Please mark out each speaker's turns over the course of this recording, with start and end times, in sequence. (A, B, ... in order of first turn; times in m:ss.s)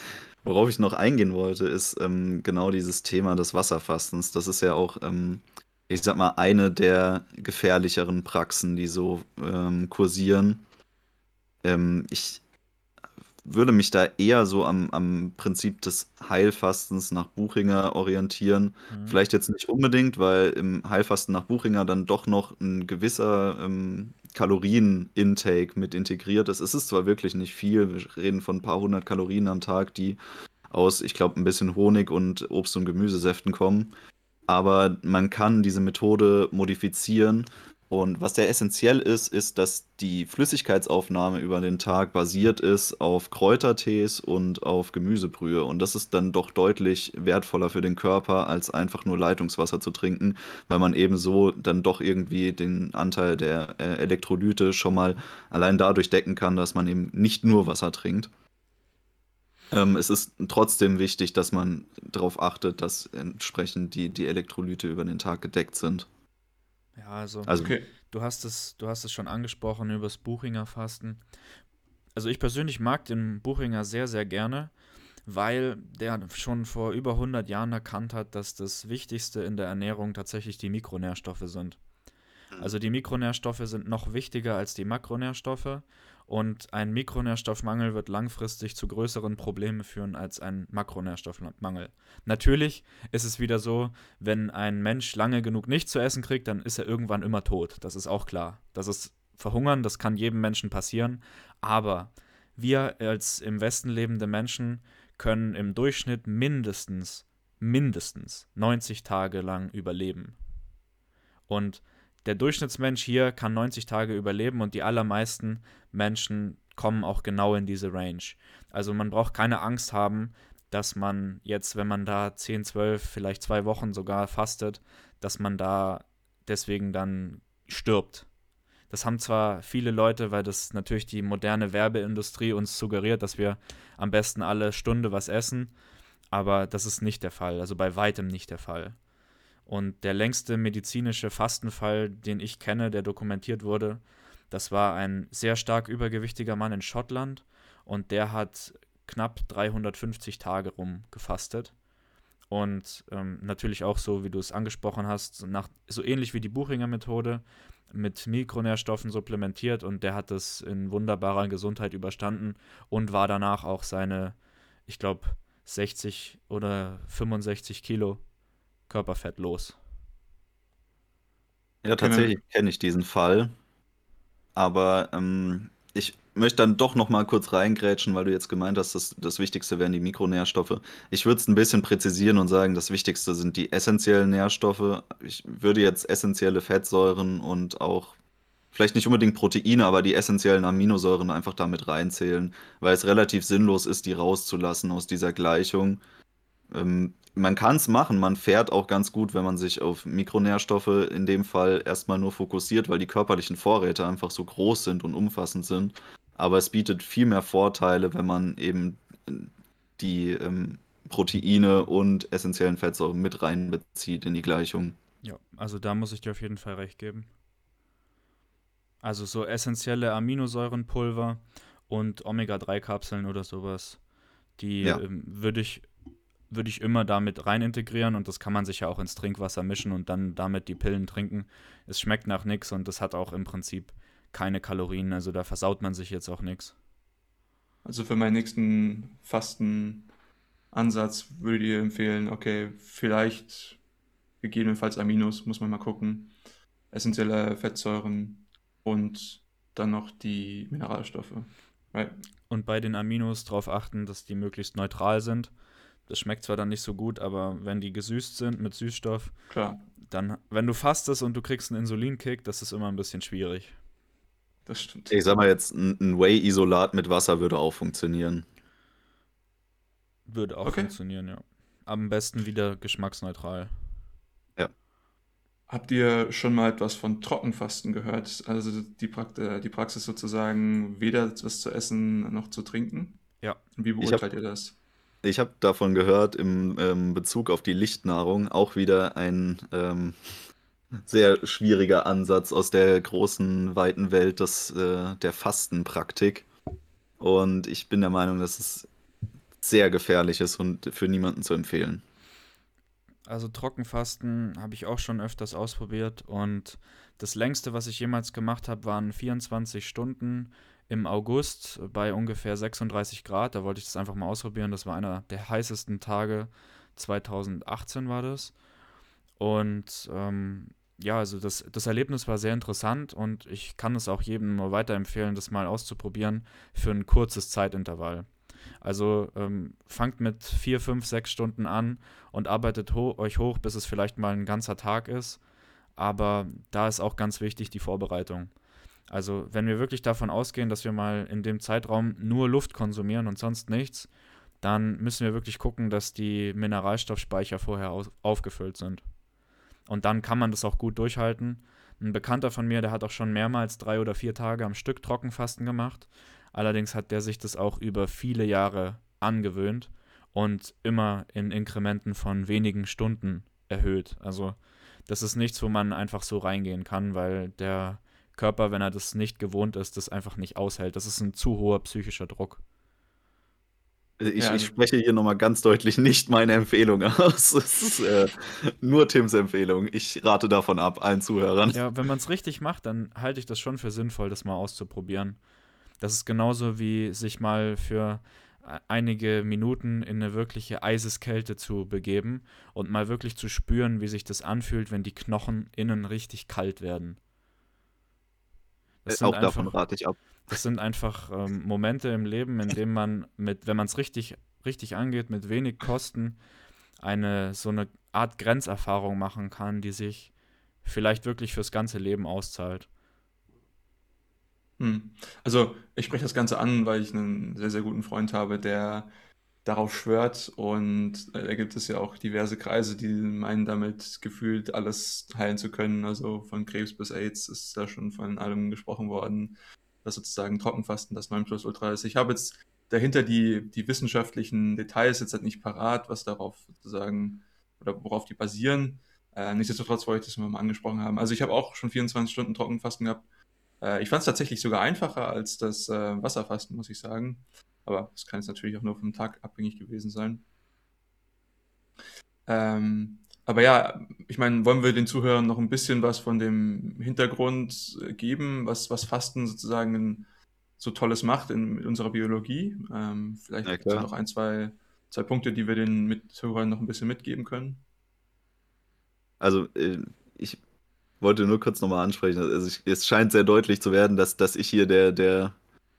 0:00.4-0:10.6 A
0:11.6-0:12.4 A
0:13.4-0:30.2 A
0:18.9-0:19.2 B
0:30.7-0:33.9 A
0:34.5-0:58.3 A
0:59.7-1:06.1 A
1:07.0-1:11.2 B
1:07.4-1:07.7 A
1:07.6-1:07.9 C
1:12.1-1:14.7 B
1:15.2-1:21.8 B
1:22.6-1:50.4 B
1:51.5-2:08.2 B
2:08.9-2:15.7 B
2:16.3-2:19.0 B
2:19.6-2:31.7 B
2:32.5-2:44.4 B
2:44.9-2:48.2 B
2:48.9-2:49.8 B
2:51.8-2:53.5 A
2:52.0-2:52.3 C
2:54.6-3:08.1 A
3:08.7-3:16.0 A
3:16.7-3:35.0 A
3:35.2-3:37.3 B
3:39.0-3:44.0 B
3:44.6-3:45.8 B
3:46.5-3:56.7 B
3:57.8-4:00.1 C
4:00.7-4:03.8 C
4:04.4-4:06.3 C
4:06.9-4:12.1 C
4:12.5-4:15.5 B
4:16.1-4:19.3 B
4:19.5-4:19.8 C
4:20.1-4:23.8 B
4:24.7-4:25.4 C
4:25.1-4:28.4 A
4:30.2-4:33.7 B
4:30.6-4:30.9 C
4:35.7-4:43.2 C
4:43.8-4:44.8 C
4:45.2-4:50.2 A
4:51.0-4:56.4 A
4:57.2-4:58.9 A
4:59.6-5:02.0 A
5:03.3-5:18.5 B
5:19.4-5:28.3 B
5:28.8-5:35.4 B
5:36.0-5:38.5 B
5:39.1-5:44.1 B
5:44.6-5:49.0 B
5:49.9-6:12.6 B
6:14.2-6:21.8 A
6:14.4-6:14.7 C
6:21.7-6:25.4 B
6:26.0-6:37.2 B
6:39.0-6:39.8 B
6:39.1-6:40.6 A
6:40.5-6:46.4 B
6:47.0-6:50.3 B
6:50.8-6:52.9 B
6:54.8-6:59.1 C
6:59.6-7:23.2 C
7:23.8-7:30.4 C
7:32.5-7:40.2 C
7:40.8-7:47.8 C
7:43.6-7:44.1 A
7:49.4-7:50.6 A
7:51.2-7:55.6 A